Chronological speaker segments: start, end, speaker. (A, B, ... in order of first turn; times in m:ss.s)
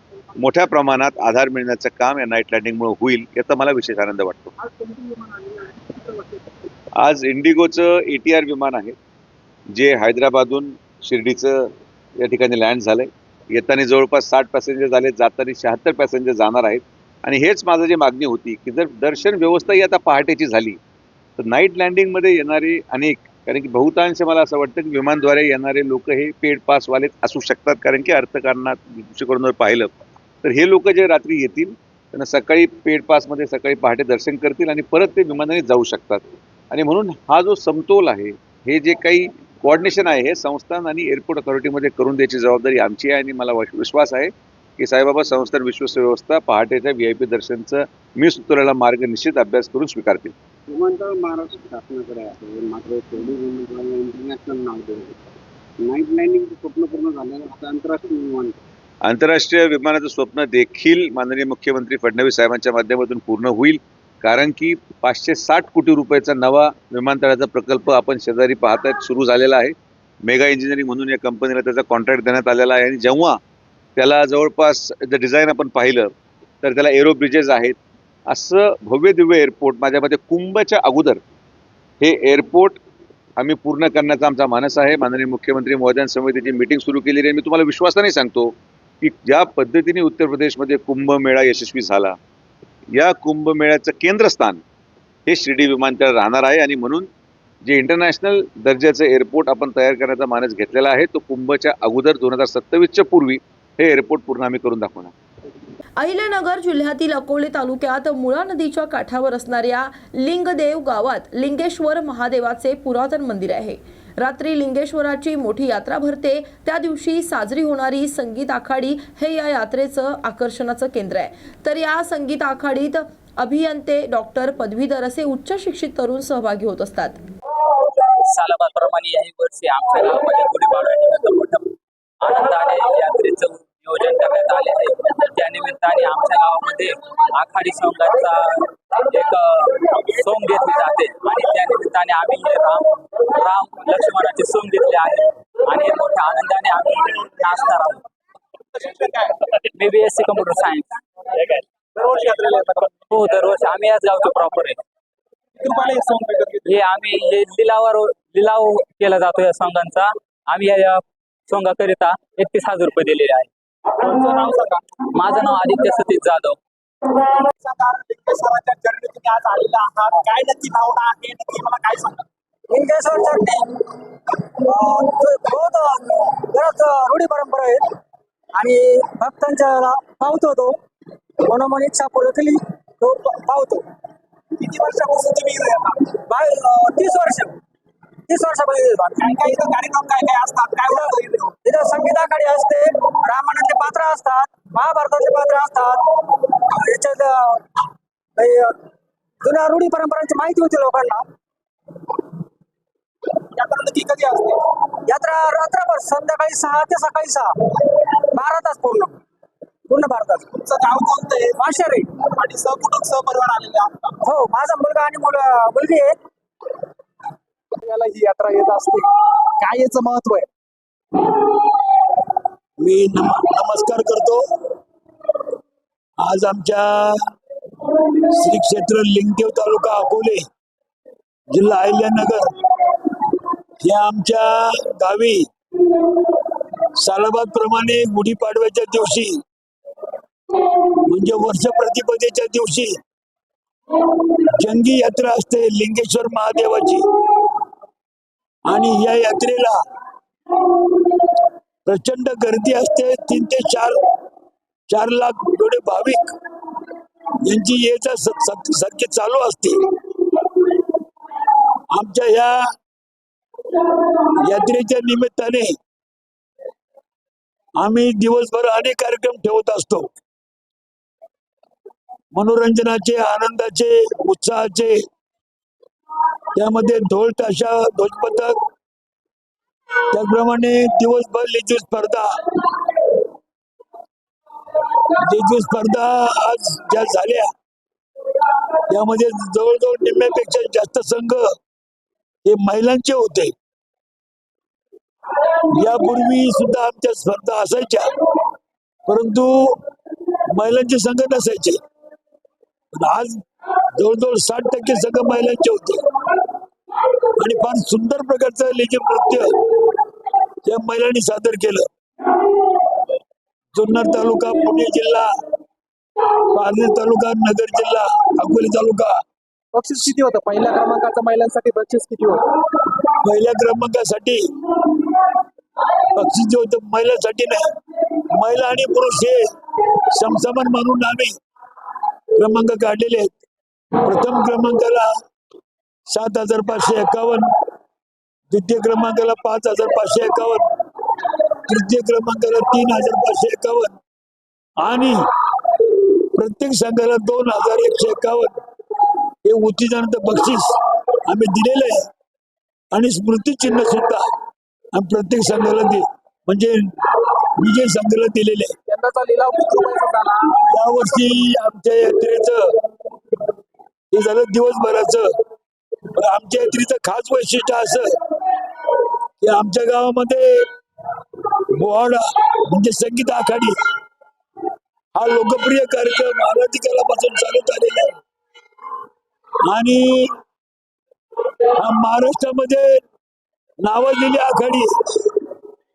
0:00.4-0:04.5 A
0:04.6-0:06.4 B
0:07.0-0:08.9 A
0:09.7-0:20.8 A
0:21.4-0:50.3 A
0:50.7-0:55.3 C
0:55.8-0:58.6 C
0:59.0-1:13.4 A
1:14.0-1:16.1 A
1:16.6-1:17.8 A
1:18.3-1:21.2 A
1:22.0-1:22.8 A
1:23.4-1:32.2 A
1:32.9-1:34.6 A
1:35.3-1:37.1 A
1:37.6-1:45.1 A
1:46.0-2:07.2 D
2:08.2-2:28.0 E
2:28.7-2:29.4 B
2:29.6-2:31.0 E
2:32.0-2:33.0 B
2:33.1-2:34.8 E
2:35.6-2:36.6 B
2:36.6-2:43.5 E
2:44.0-2:44.8 B
2:45.1-2:46.6 E
2:47.5-2:52.2 B
2:52.7-2:53.8 F
2:54.6-2:57.9 F
2:58.5-3:00.8 F
3:01.4-3:03.9 F
3:04.6-3:06.0 B
3:06.1-3:07.6 F
3:08.3-3:09.7 F
3:09.2-3:11.6 B
3:10.9-3:16.0 F
3:16.7-3:17.6 F
3:18.4-3:18.8 F
3:19.4-3:21.2 F
3:23.5-3:24.6 B
3:25.0-3:29.2 F
3:29.9-3:30.6 F
3:30.6-3:31.6 B
3:31.6-3:32.1 F
3:32.2-3:34.2 B
3:34.2-3:36.2 F
3:37.8-3:39.1 B
3:39.6-3:40.5 B
3:42.8-3:44.4 G
3:46.2-3:47.3 G
3:48.3-3:50.5 G
3:51.5-3:52.5 G
3:53.8-3:55.5 G
3:56.9-3:59.4 G
4:01.0-4:03.0 G
4:04.5-4:07.1 G
4:08.7-4:09.8 G
4:11.8-4:14.0 G
4:14.9-4:16.3 G
4:17.4-4:19.8 G
4:21.9-4:22.7 G
4:24.4-4:25.8 G
4:27.8-4:30.1 G
4:32.3-4:35.0 G
4:36.5-4:38.6 G
4:40.1-4:43.1 G
4:45.2-4:47.5 G
4:48.9-4:51.6 G
4:52.4-4:53.5 G
4:55.7-4:58.4 G
4:59.1-4:59.8 G
5:00.5-5:01.8 G
5:02.9-5:03.4 G
5:03.9-5:06.0 G
5:07.4-5:10.0 G
5:10.6-5:11.9 G
5:13.7-5:15.3 G
5:16.5-5:19.2 G
5:19.7-5:22.4 B
5:23.2-5:24.5 G
5:26.1-5:31.4 G
5:32.4-5:33.4 G
5:33.9-5:35.1 G
5:36.1-5:37.5 G
5:38.5-5:44.0 G
5:44.8-5:45.3 G
5:46.3-5:48.6 G
5:49.4-5:52.1 G
5:52.9-5:54.3 G
5:54.9-5:58.7 G
5:58.9-6:00.6 B
6:00.6-6:02.7 G
6:04.1-6:05.3 G
6:06.1-6:08.2 G
6:09.4-6:10.7 G
6:11.7-6:13.8 G
6:15.1-6:18.2 G
6:19.6-6:20.4 G
6:21.6-6:23.0 G
6:23.8-6:25.4 G